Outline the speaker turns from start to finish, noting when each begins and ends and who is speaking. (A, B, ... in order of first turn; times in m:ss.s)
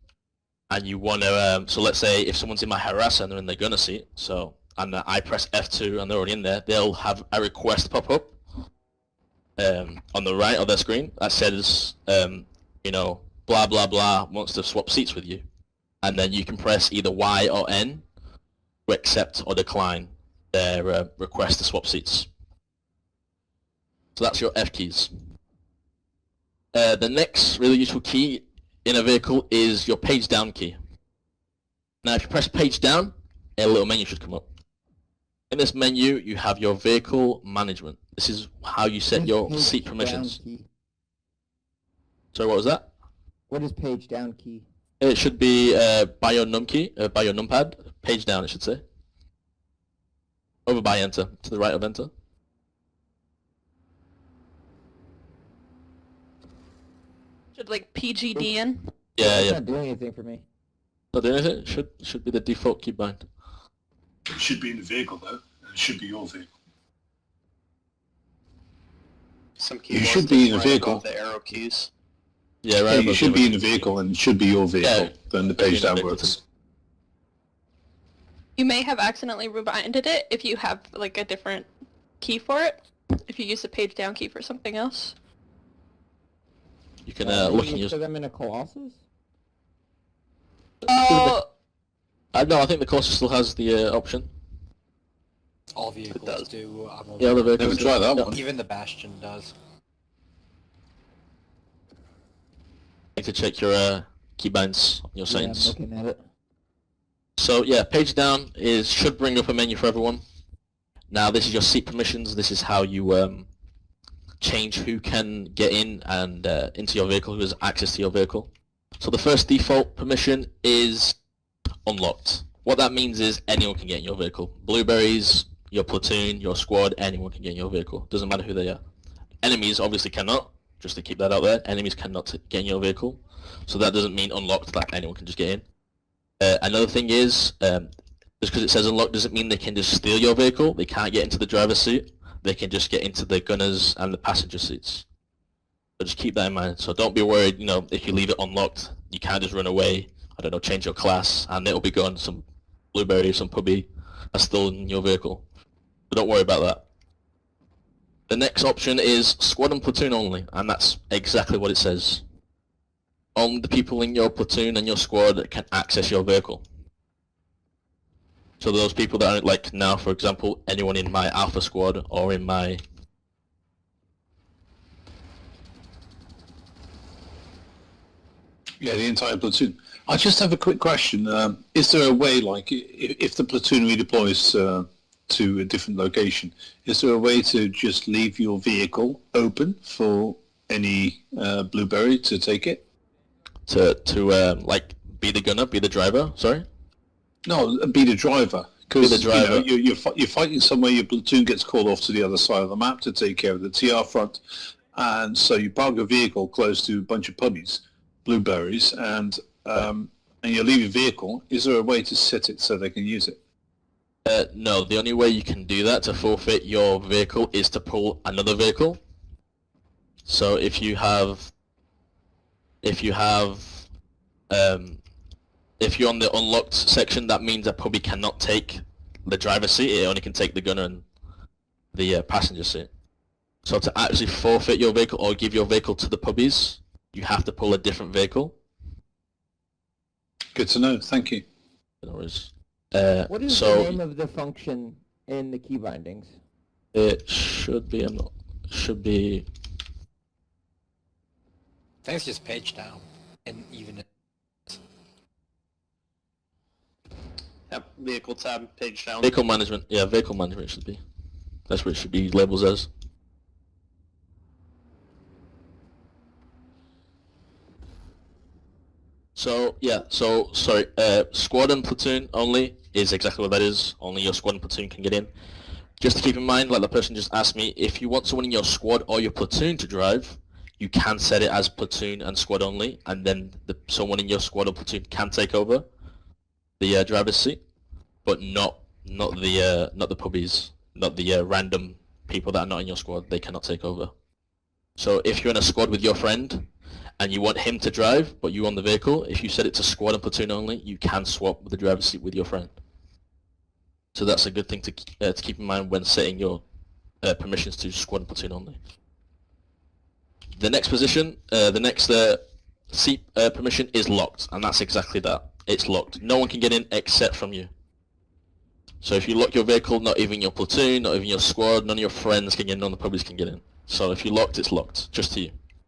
0:00.7-0:08.3 A
0:09.6-0:15.4 A
0:16.0-0:18.0 A
0:18.9-0:22.3 A
0:24.2-0:25.1 A
0:26.7-0:30.8 A
0:32.0-0:34.4 A
0:35.5-0:40.4 A
0:39.1-0:40.7 B
0:42.3-0:42.9 A
0:43.5-0:44.7 B
0:45.0-0:48.8 A
0:50.7-0:52.1 A
0:57.6-0:58.8 C
0:59.2-0:59.6 A
0:59.2-1:00.4 B
1:01.1-1:03.3 A
1:04.3-1:06.5 D
1:09.6-1:11.9 E
1:09.9-1:11.0 D
1:12.6-1:13.9 A
1:12.9-1:16.4 D
1:14.8-1:16.4 A
1:18.6-1:21.7 C
1:22.2-1:25.2 C
1:27.1-1:28.0 A
1:27.2-1:29.0 B
1:30.8-1:31.4 A
1:30.9-1:31.5 C
1:32.3-1:34.3 A
1:35.8-1:39.5 F
1:36.1-1:36.5 E
1:37.2-1:38.3 A
1:37.6-1:38.4 D
1:43.2-1:45.7 A
1:45.3-1:46.2 B
1:47.4-1:50.2 A
1:51.1-1:53.5 A
1:54.4-1:58.5 A
1:59.0-2:01.2 A
2:01.9-2:08.8 A
2:09.4-2:15.6 A
2:16.4-2:17.9 A
2:18.4-2:25.0 A
2:26.0-2:35.4 A
2:36.1-2:36.8 A
2:38.3-2:42.2 A
2:43.4-2:46.6 A
2:48.6-2:52.8 A
2:58.8-3:12.8 D
3:13.7-3:16.6 A
3:17.5-3:33.4 D
3:19.0-3:19.7 A
3:34.2-3:39.0 A
3:40.3-3:41.5 A
3:42.8-3:43.9 A
3:44.5-3:45.0 A
3:45.8-3:51.0 A
3:51.9-3:52.9 A
3:53.6-3:58.6 A
4:00.6-4:01.4 D
4:02.0-4:04.0 A
4:03.3-4:06.4 B
4:06.9-4:09.5 A
4:12.0-4:14.0 F
4:17.7-4:19.3 E
4:19.2-4:21.0 A
4:21.7-4:22.9 A
4:29.4-4:35.3 A
4:36.0-4:45.8 A
4:46.8-4:47.6 A
4:48.2-4:54.1 A
4:55.0-4:56.7 A
4:57.2-5:02.7 A
5:04.1-5:06.6 A
5:07.2-5:08.8 A
5:10.6-5:17.7 A
5:19.0-5:25.5 A